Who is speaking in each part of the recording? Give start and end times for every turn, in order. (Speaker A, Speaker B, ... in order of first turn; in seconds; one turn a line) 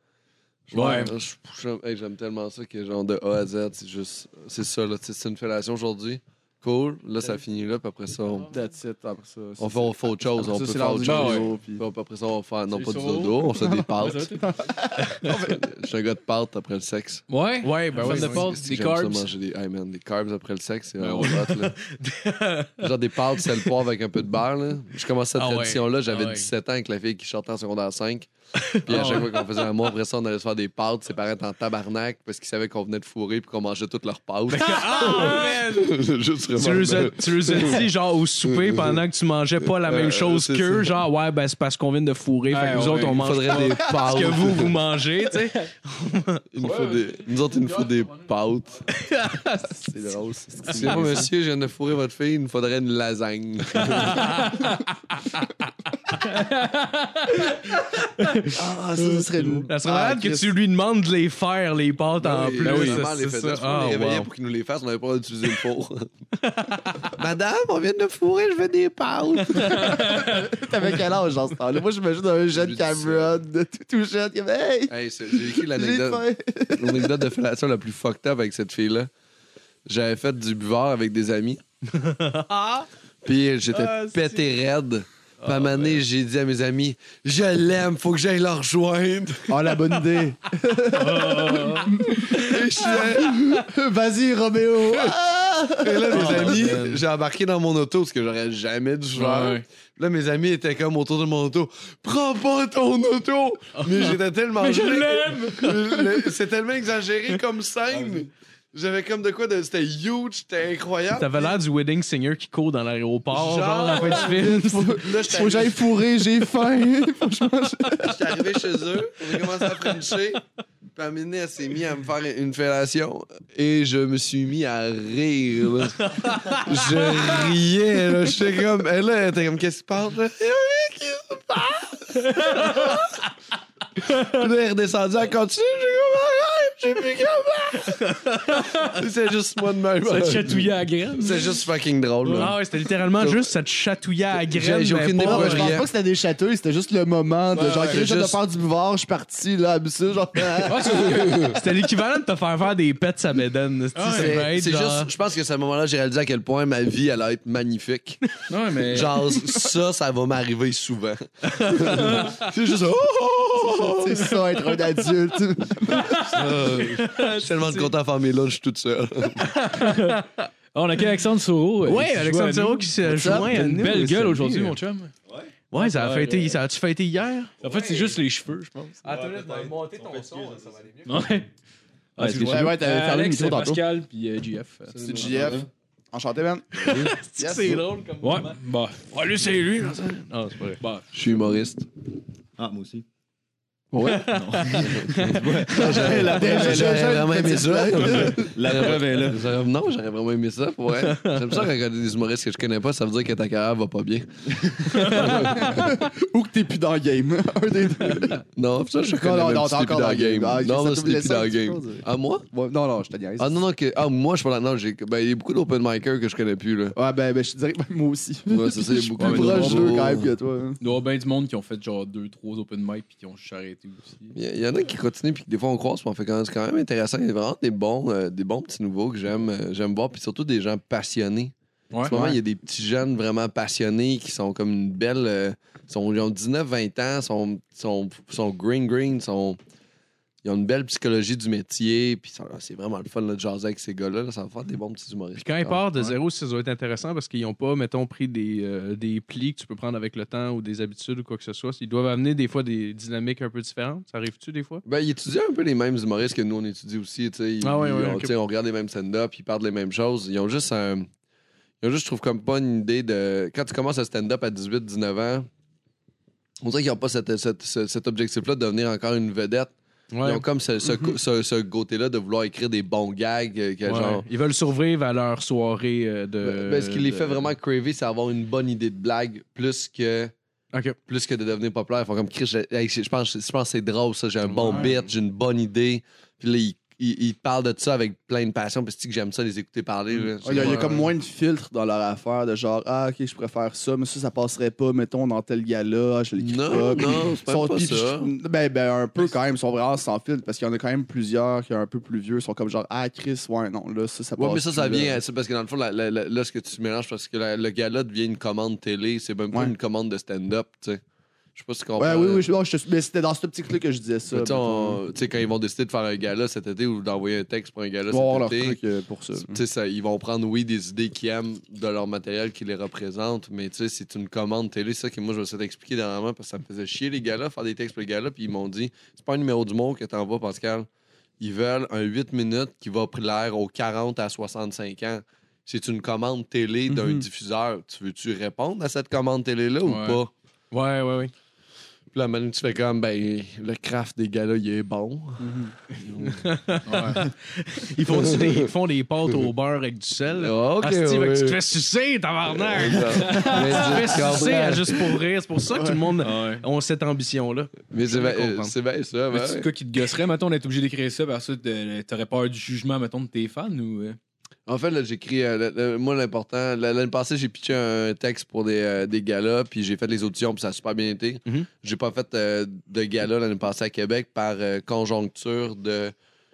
Speaker A: 0.7-8.5
Speaker B: 0.7-1.1
Speaker C: 8.5-11.8
Speaker A: 9.6-14.3
Speaker B: 11.0-11.5
Speaker B: 12.7-14.4
Speaker C: 13.6-15.7
Speaker A: 15.3-17.2
Speaker B: 17.3-19.3
Speaker D: 17.6-18.5
Speaker A: 17.9-21.8
Speaker B: 21.0-21.5
Speaker D: 21.2-22.9
Speaker A: 22.8-37.9
Speaker D: 25.4-26.5
Speaker D: 28.7-29.6
Speaker B: 28.9-29.2
Speaker D: 34.5-36.0
Speaker B: 34.6-35.6
Speaker D: 36.6-46.4
Speaker A: 38.5-39.0
Speaker A: 39.8-41.0
Speaker B: 42.5-43.2
Speaker A: 43.0-44.8
Speaker A: 46.5-48.8
Speaker B: 46.6-48.1
Speaker D: 48.9-49.8
Speaker C: 49.6-51.3
Speaker A: 50.7-54.5
Speaker D: 50.7-51.2
Speaker D: 53.8-56.4
Speaker B: 56.2-57.5
Speaker C: 58.5-60.5
Speaker B: 59.0-59.6
Speaker D: 59.7-64.3
Speaker A: 62.2-66.1
Speaker B: 62.6-63.1
Speaker D: 66.4-67.1
Speaker A: 67.1-70.0
Speaker D: 69.5-70.5
Speaker C: 69.6-77.3
Speaker A: 72.5-73.3
Speaker A: 74.9-79.1
Speaker A: 79.9-81.6
Speaker D: 81.9-82.9
Speaker A: 83.2-89.6
Speaker D: 83.7-84.5
Speaker D: 85.4-86.0
Speaker C: 89.5-96.6
Speaker D: 91.0-93.1
Speaker B: 91.0-91.9
Speaker A: 92.3-93.7
Speaker A: 95.8-111.6
Speaker B: 96.2-97.0
Speaker D: 96.3-96.8
Speaker B: 99.2-99.6
Speaker D: 103.8-104.2
Speaker B: 104.6-105.8
Speaker D: 105.5-106.0
Speaker D: 111.1-115.6
Speaker A: 113.3-116.0
Speaker C: 113.9-118.5
Speaker A: 118.0-120.4
Speaker A: 121.0-133.2
Speaker D: 126.1-126.8
Speaker D: 132.4-132.9
Speaker A: 134.0-138.2
Speaker D: 137.9-138.9
Speaker A: 138.8-143.5
Speaker B: 140.0-141.6
Speaker B: 142.2-142.5
Speaker D: 142.3-145.8
Speaker A: 144.4-145.9
Speaker C: 145.2-151.2
Speaker B: 147.6-148.0
Speaker A: 147.9-148.4
Speaker B: 150.7-151.6
Speaker A: 151.2-151.5
Speaker D: 151.4-155.1
Speaker B: 153.9-154.4
Speaker A: 154.0-164.3
Speaker B: 158.5-159.4
Speaker D: 161.6-162.4
Speaker C: 163.6-166.3
Speaker D: 165.9-167.9
Speaker A: 166.2-169.5
Speaker B: 169.5-170.2
Speaker D: 169.6-170.5
Speaker B: 170.7-175.1
Speaker D: 171.9-174.8
Speaker A: 173.1-173.5
Speaker D: 175.7-178.1
Speaker B: 175.7-176.6
Speaker B: 177.6-179.0
Speaker D: 179.0-181.3
Speaker E: 179.1-180.8
Speaker B: 181.1-181.5
Speaker B: 182.2-185.4
Speaker E: 182.2-182.8
Speaker C: 182.2-183.8
Speaker C: 185.0-187.8
Speaker E: 185.1-185.7
Speaker A: 185.2-185.6
Speaker D: 186.8-190.8
Speaker B: 188.2-189.1
Speaker B: 190.8-191.1
Speaker A: 191.1-191.9
Speaker E: 192.6-193.1
Speaker D: 194.0-196.4
Speaker E: 194.0-197.1
Speaker A: 194.6-205.8
Speaker C: 196.0-198.5
Speaker E: 198.0-199.5
Speaker D: 201.0-201.6
Speaker D: 204.9-205.9
Speaker C: 205.1-208.4
Speaker A: 208.6-212.5
Speaker C: 209.2-213.7
Speaker A: 213.4-217.0
Speaker C: 216.9-220.8
Speaker A: 218.5-220.3
Speaker B: 219.2-220.0
Speaker B: 220.8-224.4
Speaker A: 224.3-231.5
Speaker B: 231.9-232.4
Speaker A: 232.1-239.6
Speaker A: 240.4-246.2
Speaker D: 245.4-254.8
Speaker A: 254.8-261.1
Speaker D: 257.6-258.3
Speaker A: 261.8-265.5
Speaker A: 266.6-274.2
Speaker D: 270.1-270.4
Speaker D: 273.9-277.5
Speaker A: 276.4-280.3
Speaker A: 281.1-291.1
Speaker D: 284.4-284.9
Speaker D: 290.3-291.0
Speaker C: 290.4-305.2
Speaker A: 296.4-298.3
Speaker A: 304.4-311.0
Speaker A: 311.6-312.5
Speaker C: 312.0-315.0
Speaker A: 314.3-318.8
Speaker C: 318.1-319.6
Speaker A: 319.4-330.9
Speaker A: 331.4-340.3
Speaker C: 336.9-337.2
Speaker B: 339.9-340.2
Speaker D: 340.7-341.3
Speaker A: 342.1-346.4
Speaker C: 345.4-345.7
Speaker D: 346.2-358.7
Speaker B: 346.9-347.2
Speaker A: 348.1-348.6
Speaker A: 350.4-351.6
Speaker A: 352.5-355.2
Speaker B: 353.2-353.9
Speaker C: 355.7-356.1
Speaker B: 356.2-356.6
Speaker A: 357.9-359.7
Speaker B: 359.3-364.2
Speaker A: 364.7-376.1